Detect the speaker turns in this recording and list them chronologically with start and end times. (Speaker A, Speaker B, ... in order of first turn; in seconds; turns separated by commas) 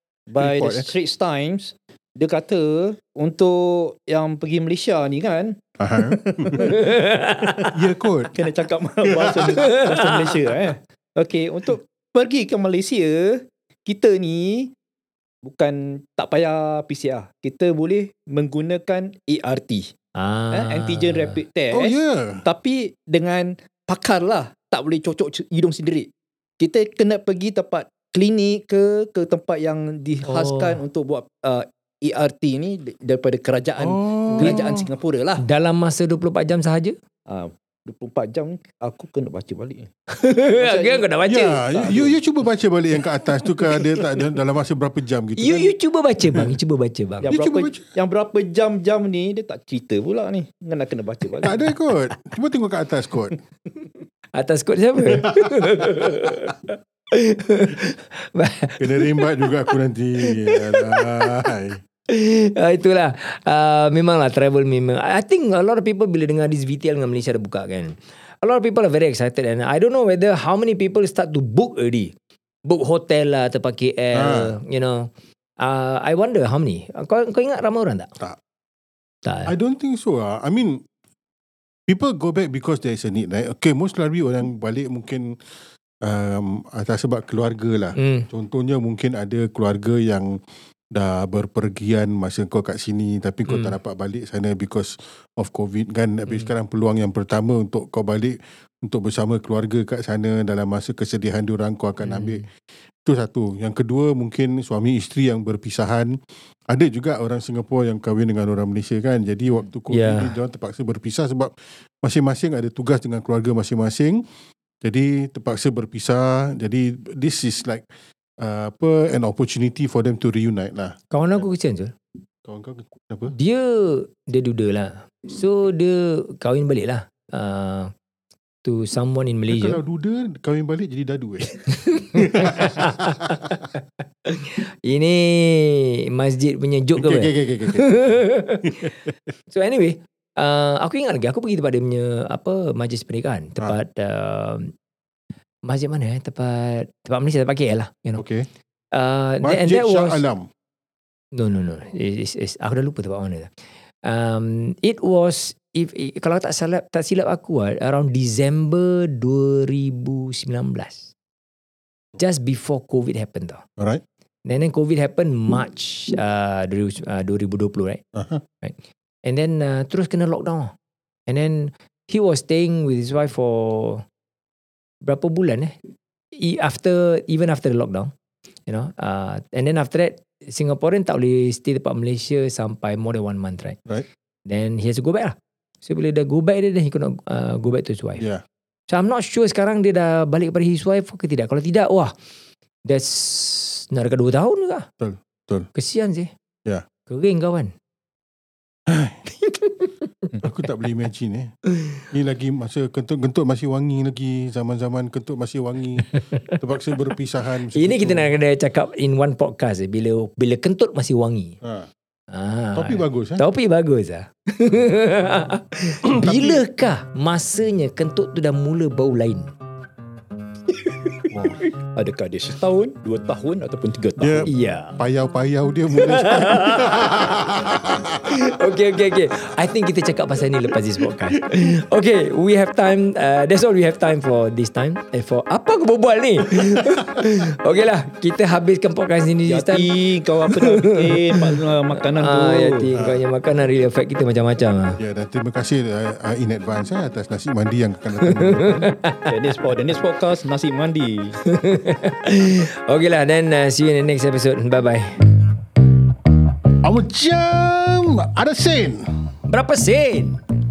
Speaker A: 0.3-6.9, Speaker B: 0.4-0.9, Speaker B: 5.8-6.7, Speaker C: 6.6-7.7, Speaker B: 7.7-8.3, Speaker A: 8.3-14.7, Speaker B: 9.0-9.6, Speaker C: 9.5-10.3, Speaker A: 15.4-19.9, Speaker C: 20.1-21.4, Speaker A: 20.5-26.1, Speaker B: 21.7-22.4, Speaker A: 26.6-35.4, Speaker C: 30.2-30.8, Speaker B: 33.8-34.9, Speaker C: 34.4-34.8, Speaker C: 35.4-37.0, Speaker A: 37.3-39.9, Speaker C: 40.1-41.9, Speaker A: 40.5-41.1, Speaker B: 41.3-45.7, Speaker A: 41.8-42.1, Speaker C: 43.7-44.1, Speaker C: 45.4-47.3, Speaker A: 47.2-51.6, Speaker B: 47.3-47.9, Speaker B: 51.4-53.4, Speaker C: 54.3-59.6, Speaker B: 55.0-56.3, Speaker B: 58.8-61.8, Speaker C: 60.2-61.4, Speaker C: 62.1-72.1, Speaker C: 72.7-78.1, Speaker B: 74.1-74.5, Speaker C: 79.2-79.5, Speaker B: 79.5-80.8, Speaker B: 81.9-85.4, Speaker B: 86.0-90.4, Speaker C: 88.0-88.3, Speaker B: 90.9-102.5, Speaker C: 93.5-93.8, Speaker C: 102.0-102.5, Speaker B: 103.0-106.2, Speaker B: 106.7-114.2, Speaker C: 109.9-110.3, Speaker B: 114.8-117.9, Speaker B: 118.4-121.5, Speaker C: 121.1-121.9, Speaker B: 122.4-123.3, Speaker C: 123.3-127.9, Speaker C: 128.6-129.8, Speaker B: 129.5-133.3, Speaker C: 131.7-138.9, Speaker B: 137.0-138.9, Speaker C: 139.5-144.7, Speaker C: 145.6-148.2, Speaker B: 148.2-148.4, Speaker C: 148.9-150.2, Speaker B: 149.4-150.5, Speaker C: 151.3-153.5, Speaker C: 154.0-161.1, Speaker C: 162.2-163.6, Speaker C: 164.4-168.0, Speaker B: 168.1-168.4, Speaker C: 168.6-170.7, Speaker C: 171.3-174.0, Speaker C: 175.0-175.7, Speaker C: 176.3-178.1, Speaker C: 178.7-183.8, Speaker C: 184.4-188.2, Speaker C: 188.9-192.1, Speaker C: 192.8-194.9, Speaker B: 195.0-195.7, Speaker C: 195.7-196.3, Speaker C: 197.1-197.7, Speaker B: 198.9-199.2, Speaker C: 199.4-200.3, Speaker B: 200.4-201.5, Speaker C: 201.7-202.0, Speaker B: 202.1-208.3, Speaker C: 206.0-206.6, Speaker C: 207.7-211.6, Speaker B: 211.6-211.9, Speaker C: 212.3-219.5, Speaker B: 212.7-213.4, Speaker B: 216.0-216.6, Speaker C: 220.8-221.7, Speaker B: 221.3-221.6, Speaker A: 221.9-224.5, Speaker B: 224.2-228.5, Speaker C: 224.4-225.0, Speaker C: 226.0-227.1, Speaker C: 228.3-239.9, Speaker B: 236.8-237.1, Speaker A: 239.5-242.9, Speaker C: 240.4-245.0, Speaker B: 242.9-243.2, Speaker B: 245.0-248.9, Speaker C: 248.2-249.3, Speaker A: 249.3-251.4, Speaker C: 251.4-255.1, Speaker B: 256.8-259.1, Speaker C: 259.5-260.4